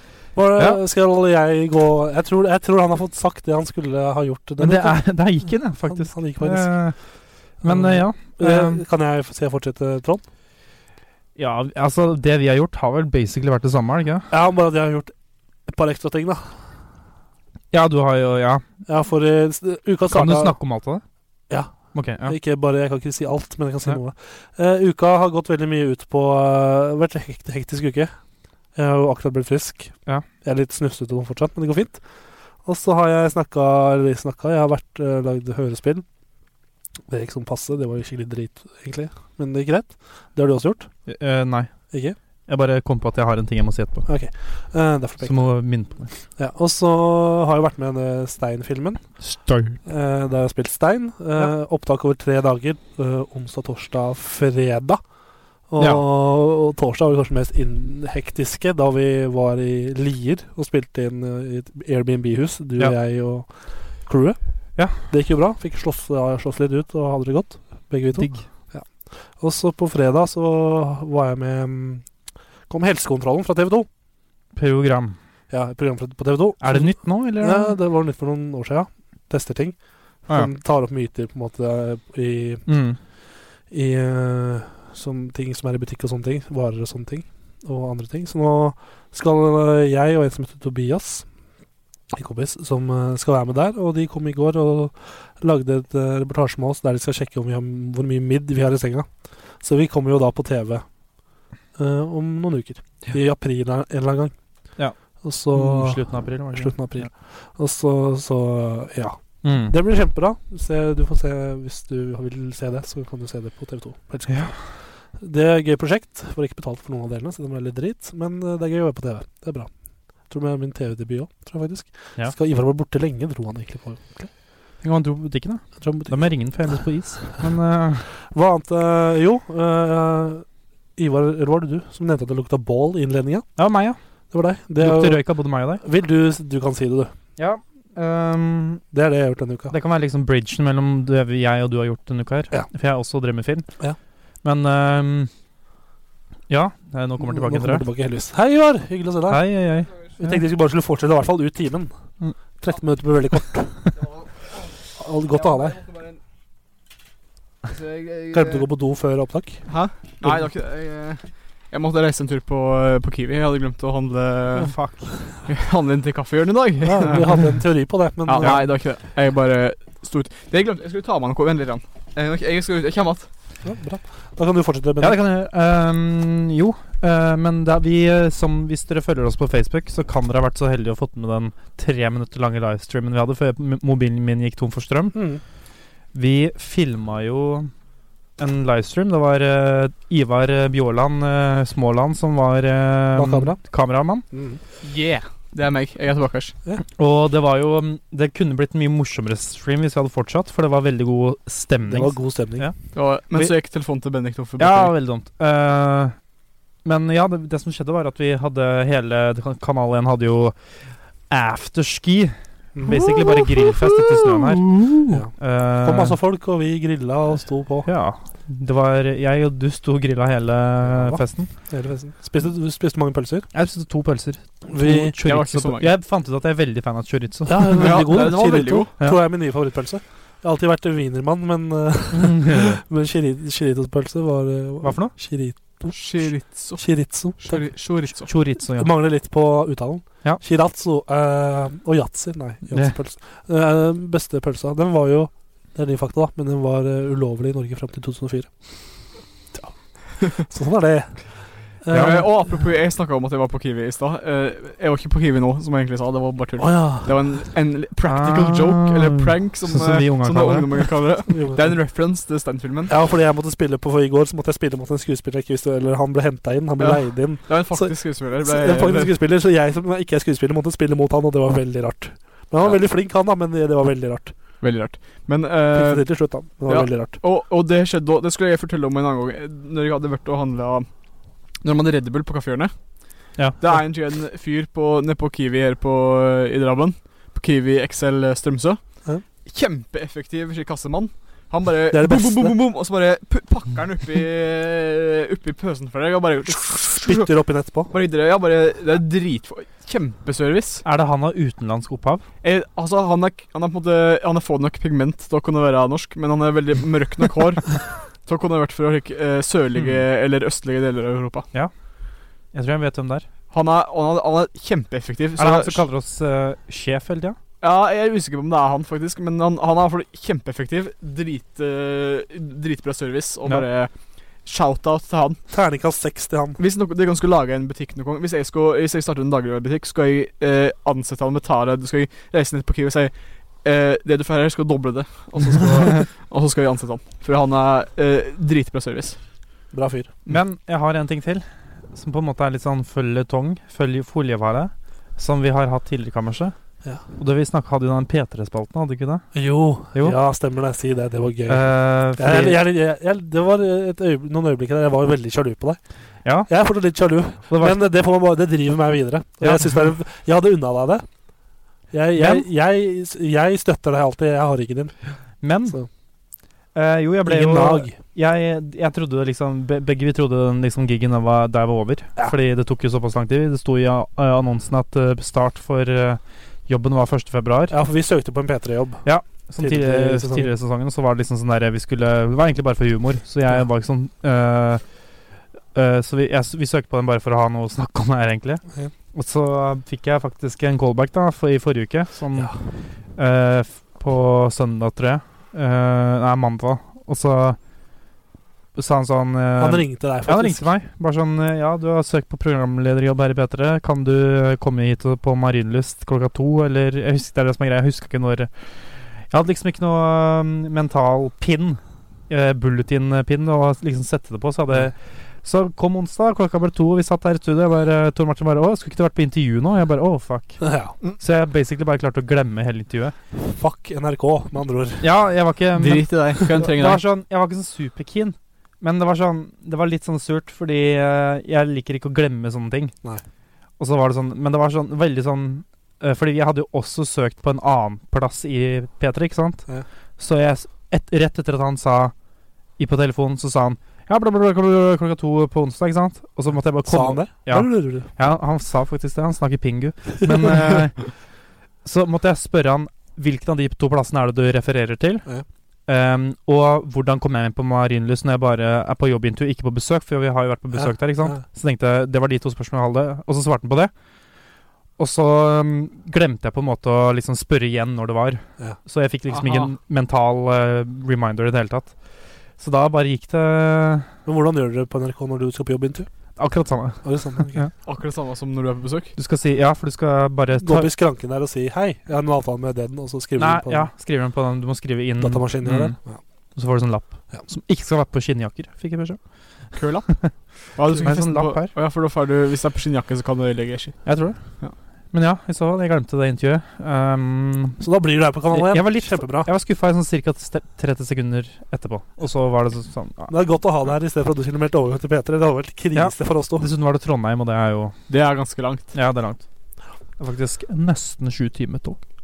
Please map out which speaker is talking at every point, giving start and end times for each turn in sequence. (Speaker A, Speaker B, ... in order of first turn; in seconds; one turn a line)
Speaker A: 0.3-5.0
Speaker B: 4.6-7.0
Speaker A: 5.8-6.8
Speaker B: 7.6-8.8
Speaker A: 7.6-10.2
Speaker B: 11.3-14.3
Speaker A: 14.3-15.1
Speaker A: 15.7-16.6
Speaker B: 17.7-18.6
Speaker A: 18.9-20.6
Speaker B: 20.1-21.0
Speaker A: 21.5-28.1
Speaker B: 21.9-22.4
Speaker A: 28.7-29.9
Speaker A: 30.4-32.0
Speaker A: 32.6-36.0
Speaker A: 37.1-40.9
Speaker B: 41.1-41.7
Speaker A: 41.9-42.2
Speaker B: 42.5-44.1
Speaker A: 44.1-45.5
Speaker B: 45.2-46.1
Speaker A: 46.4-49.0
Speaker B: 49.2-49.8
Speaker A: 49.8-55.0
Speaker A: 55.7-63.5
Speaker B: 55.8-56.0
Speaker A: 64.0-64.4
Speaker A: 64.9-72.1
Speaker B: 68.1-68.5
Speaker A: 72.7-73.9
Speaker B: 74.5-75.2
Speaker A: 75.5-82.7
Speaker B: 76.6-77.8
Speaker B: 82.7-83.0
Speaker A: 83.7-91.3
Speaker A: 92.1-99.1
Speaker A: 99.6-100.8
Speaker A: 101.8-104.3
Speaker A: 105.2-124.3
Speaker B: 105.5-107.1
Speaker B: 109.4-109.7
Speaker B: 114.3-114.5
Speaker B: 124.8-128.1
Speaker A: 125.8-126.2
Speaker A: 128.2-130.4
Speaker A: 131.0-133.4
Speaker B: 133.6-134.0
Speaker A: 134.3-135.2
Speaker B: 134.8-135.8
Speaker A: 135.8-137.1
Speaker B: 137.4-138.8
Speaker A: 138.9-139.7
Speaker B: 139.7-143.7
Speaker B: 144.4-145.3
Speaker B: 146.5-147.8
Speaker A: 147.2-149.5
Speaker B: 149.3-150.4
Speaker A: 150.2-151.9
Speaker A: 152.6-153.8
Speaker A: 155.0-155.8
Speaker C: 155.3-156.2
Speaker C: 157.7-158.7
Speaker A: 158.3-159.6
Speaker C: 159.7-164.7
Speaker B: 164.5-165.1
Speaker C: 165.4-167.4
Speaker A: 166.8-168.6
Speaker C: 168.3-173.3
Speaker B: 168.4-168.7
Speaker A: 173.6-175.2
Speaker B: 175.0-185.2
Speaker A: 185.1-185.4
Speaker B: 186.1-187.7
Speaker B: 188.4-194.2
Speaker A: 193.1-193.6
Speaker A: 194.3-194.6
Speaker C: 194.8-196.5
Speaker B: 197.0-202.8
Speaker A: 201.9-202.7
Speaker C: 202.9-204.9
Speaker B: 204.6-206.2
Speaker B: 206.8-210.6
Speaker B: 211.3-216.2
Speaker A: 212.7-213.1
Speaker A: 215.1-217.9
Speaker B: 217.8-221.5
Speaker A: 220.8-223.5
Speaker B: 223.5-228.3
Speaker A: 224.7-225.2
Speaker C: 225.2-225.9
Speaker A: 227.4-237.6
Speaker C: 227.8-228.9
Speaker B: 232.1-232.8
Speaker B: 234.8-235.1
Speaker C: 235.9-238.3
Speaker B: 238.0-238.9
Speaker A: 238.8-248.5
Speaker B: 242.7-243.0
Speaker A: 249.5-252.4
Speaker B: 251.9-252.3
Speaker C: 251.9-262.9
Speaker A: 256.6-257.4
Speaker B: 258.0-260.9
Speaker A: 261.3-261.7
Speaker A: 262.9-274.3
Speaker C: 266.8-269.1
Speaker C: 274.6-280.9
Speaker A: 275.7-277.2
Speaker C: 281.6-297.3
Speaker A: 291.9-292.6
Speaker A: 296.9-297.9
Speaker C: 297.9-300.8
Speaker B: 300.8-302.2
Speaker C: 302.4-311.5
Speaker B: 312.5-313.3
Speaker C: 313.5-315.8
Speaker B: 315.4-317.4
Speaker C: 317.6-323.9
Speaker C: 324.4-325.4
Speaker A: 325.5-326.6
Speaker C: 326.6-339.2
Speaker A: 339.7-340.1
Speaker B: 340.3-346.5
Speaker B: 347.1-349.3
Speaker A: 349.3-355.8
Speaker B: 349.9-350.2
Speaker B: 351.5-352.6
Speaker B: 356.2-356.5
Speaker A: 356.5-361.1
Speaker B: 357.5-357.9
Speaker B: 359.4-359.8
Speaker A: 361.9-364.9
Speaker B: 362.1-362.4
Speaker B: 365.4-365.8
Speaker B: 366.7-377.8
Speaker A: 367.2-368.0
Speaker A: 377.7-379.0
Speaker B: 379.0-384.8
Speaker A: 379.6-380.5
Speaker B: 385.7-388.6
Speaker B: 389.1-392.5
Speaker B: 393.1-397.6
Speaker B: 398.7-408.5
Speaker A: 399.6-400.7
Speaker B: 409.3-423.1
Speaker A: 420.6-420.9
Speaker A: 423.4-425.1
Speaker B: 425.0-432.9
Speaker C: 425.8-427.0
Speaker B: 433.8-439.6
Speaker B: 440.2-442.1
Speaker B: 442.8-451.1
Speaker A: 446.9-448.1
Speaker B: 451.8-455.2
Speaker B: 455.9-463.9
Speaker A: 460.7-461.4
Speaker B: 465.0-471.9
Speaker C: 469.3-469.7
Speaker B: 472.6-474.1
Speaker A: 474.2-476.1
Speaker B: 476.4-477.7
Speaker A: 477.0-477.7
Speaker C: 477.8-479.1
Speaker B: 479.1-480.9
Speaker A: 480.6-483.9
Speaker B: 483.4-486.0
Speaker A: 485.2-486.2
Speaker B: 486.6-489.2
Speaker B: 489.7-490.3
Speaker C: 489.7-494.7
Speaker B: 490.9-491.7
Speaker B: 494.0-494.4
Speaker B: 495.1-497.8
Speaker A: 497.8-499.5
Speaker B: 498.5-503.3
Speaker A: 503.3-506.7
Speaker B: 505.9-507.9
Speaker C: 508.1-508.9
Speaker B: 508.9-509.4
Speaker B: 510.2-512.0